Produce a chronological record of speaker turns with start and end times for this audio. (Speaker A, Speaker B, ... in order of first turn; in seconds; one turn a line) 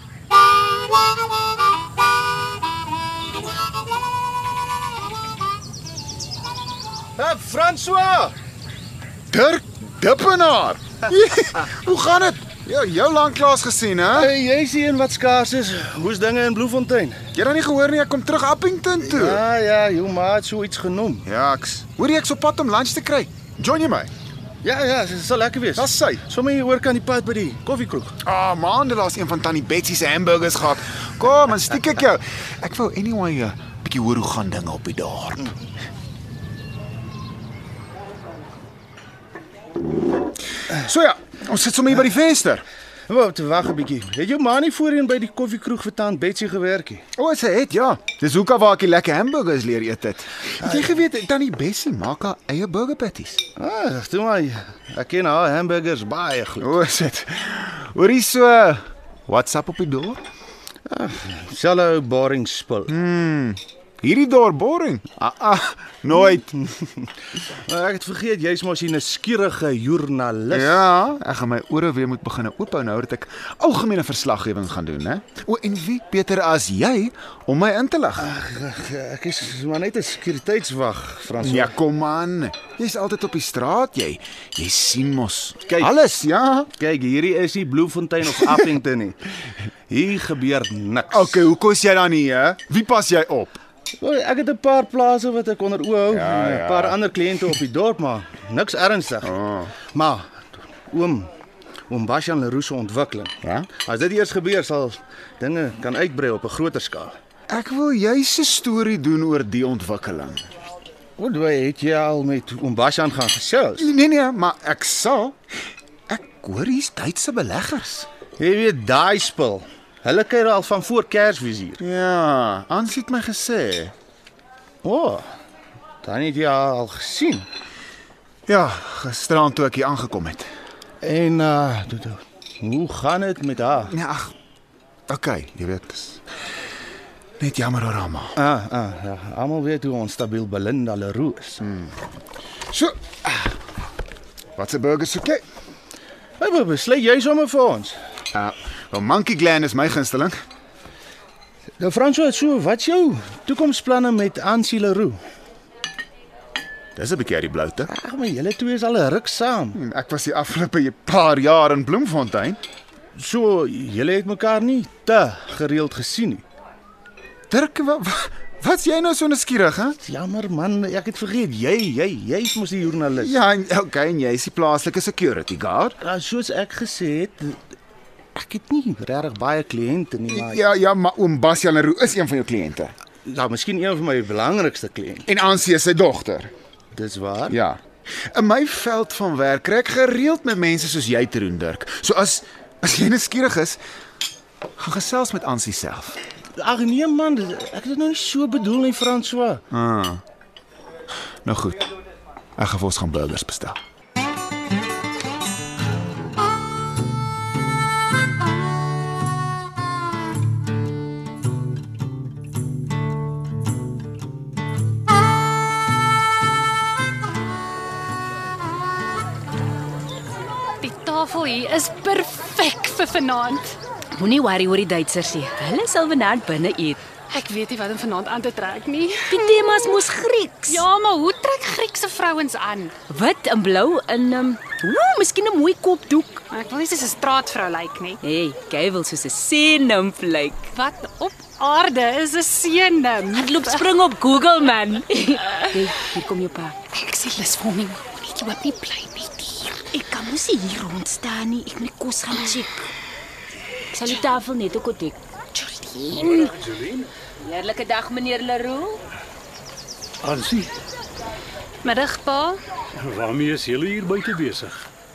Speaker A: 7.2-8.3
Speaker B: 9.3-14.3
Speaker A: 14.2-17.2
Speaker B: 17.3-19.4
Speaker A: 19.0-21.2
Speaker B: 21.2-24.1
Speaker A: 24.6-28.1
Speaker B: 25.8-26.3
Speaker B: 28.2-35.5
Speaker B: 40.8-42.7
Speaker A: 43.1-47.0
Speaker B: 47.2-53.4
Speaker A: 53.6-56.7
Speaker B: 56.6-60.2
Speaker A: 60.9-62.9
Speaker B: 62.9-66.5
Speaker A: 66.7-70.8
Speaker B: 70.5-78.3
Speaker A: 78.2-81.7
Speaker B: 81.4-86.7
Speaker A: 86.8-91.5
Speaker B: 91.1-93.6
Speaker A: 94.0-99.3
Speaker B: 96.1-97.0
Speaker B: 99.2-99.8
Speaker A: 99.9-101.3
Speaker A: 101.9-107.2
Speaker B: 103.4-103.7
Speaker B: 107.5-110.4
Speaker A: 111.2-113.9
Speaker B: 113.8-115.4
Speaker B: 116.1-118.1
Speaker A: 118.4-121.8
Speaker B: 121.8-123.9
Speaker A: 124.8-125.3
Speaker A: 126.0-127.5
Speaker B: 128.5-130.5
Speaker A: 131.0-133.9
Speaker B: 133.9-134.3
Speaker B: 135.1-136.2
Speaker B: 137.4-138.4
Speaker A: 138.4-141.6
Speaker B: 141.6-141.9
Speaker B: 142.7-143.5
Speaker B: 144.6-145.4
Speaker A: 146.4-148.0
Speaker B: 148.3-150.4
Speaker A: 151.8-155.2
Speaker B: 157.0-157.9
Speaker A: 157.9-159.8
Speaker B: 159.8-162.6
Speaker A: 163.2-166.4
Speaker B: 167.5-170.0
Speaker A: 170.0-173.3
Speaker B: 173.2-176.0
Speaker A: 176.0-177.6
Speaker A: 178.3-180.6
Speaker B: 180.3-182.9
Speaker A: 183.2-185.3
Speaker B: 185.3-186.5
Speaker A: 186.9-187.6
Speaker B: 187.5-193.8
Speaker B: 194.8-196.2
Speaker A: 196.6-199.6
Speaker B: 199.7-200.2
Speaker B: 201.4-201.8
Speaker B: 202.6-203.8
Speaker C: 220.8-223.8
Speaker D: 224.1-227.0
Speaker C: 227.3-229.5
Speaker D: 229.3-230.8
Speaker C: 230.7-232.9
Speaker D: 233.1-236.4
Speaker C: 236.5-238.2
Speaker D: 238.2-240.7
Speaker C: 240.7-243.8
Speaker D: 243.3-246.8
Speaker C: 246.9-249.9
Speaker D: 249.9-252.9
Speaker C: 253.9-254.3
Speaker D: 253.9-256.5
Speaker C: 255.6-256.0
Speaker E: 256.2-257.1
Speaker D: 257.4-259.0
Speaker E: 260.2-260.7
Speaker C: 261.8-262.6
Speaker E: 262.9-264.9